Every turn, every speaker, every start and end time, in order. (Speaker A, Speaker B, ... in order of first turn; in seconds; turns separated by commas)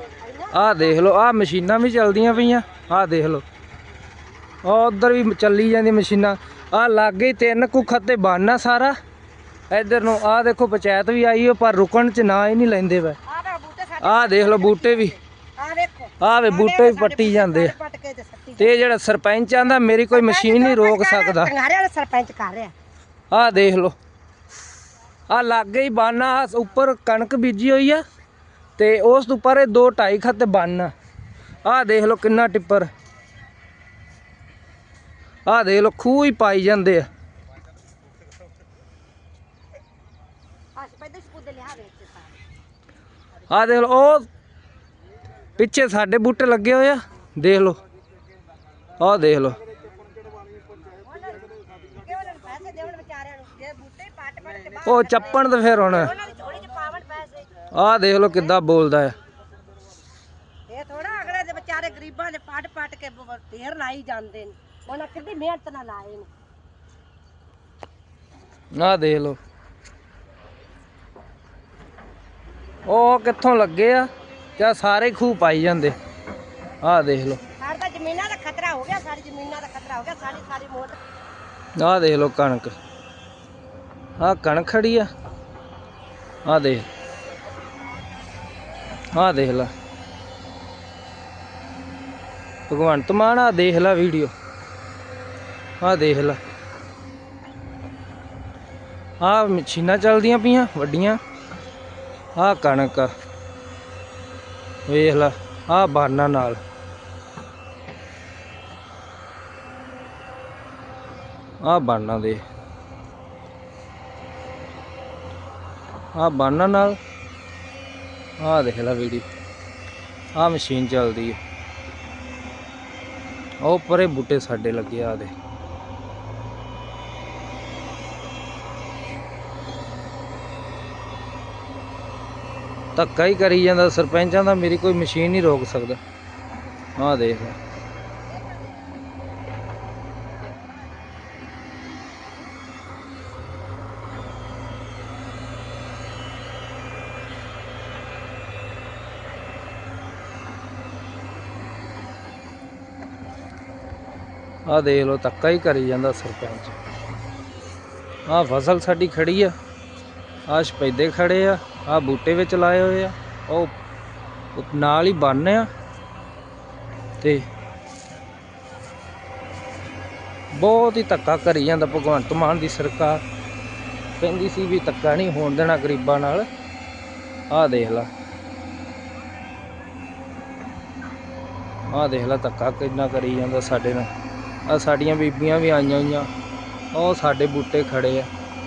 Speaker A: 0.2-1.0, Speaker B: 0.5-3.4, Speaker B: 4.6-8.9, Speaker B: 9.7-13.2, Speaker A: 13.3-18.8, Speaker B: 14.0-15.2, Speaker B: 16.2-17.8, Speaker B: 18.6-21.5, Speaker A: 20.1-22.7, Speaker B: 23.3-23.9, Speaker B: 25.3-28.0, Speaker B: 28.8-30.9, Speaker B: 31.6-32.9, Speaker B: 35.5-37.1, Speaker A: 40.8-42.4, Speaker B: 43.5-44.3, Speaker B: 45.6-47.8, Speaker B: 49.0-49.6, Speaker A: 51.0-57.6, Speaker B: 54.8-56.1, Speaker B: 57.7-59.1, Speaker A: 60.7-66.3, Speaker B: 68.7-69.4, Speaker B: 72.9-76.0, Speaker B: 76.8-77.4, Speaker A: 77.6-81.0, Speaker B: 81.8-82.7, Speaker B: 84.2-85.1, Speaker B: 86.5-86.9, Speaker B: 89.1-89.7, Speaker B: 92.7-94.3, Speaker B: 95.8-96.4, Speaker B: 99.2-101.2, Speaker B: 102.4-103.1, Speaker B: 104.9-106.6, Speaker B: 111.6-112.4, Speaker B: 116.2-117.0, Speaker B: 118.4-119.3, Speaker B: 120.3-121.4, Speaker B: 123.6-125.3, Speaker B: 133.0-136.0, Speaker B: 137.0-137.6, Speaker B: 154.7-156.8, Speaker B: 158.3-159.6, Speaker B: 160.5-163.7, Speaker B: 164.6-165.7, Speaker B: 167.2-167.5, Speaker B: 170.5-173.2, Speaker B: 174.2-176.5, Speaker B: 177.5-178.1, Speaker B: 181.9-184.1, Speaker B: 184.7-186.3, Speaker B: 186.9-188.3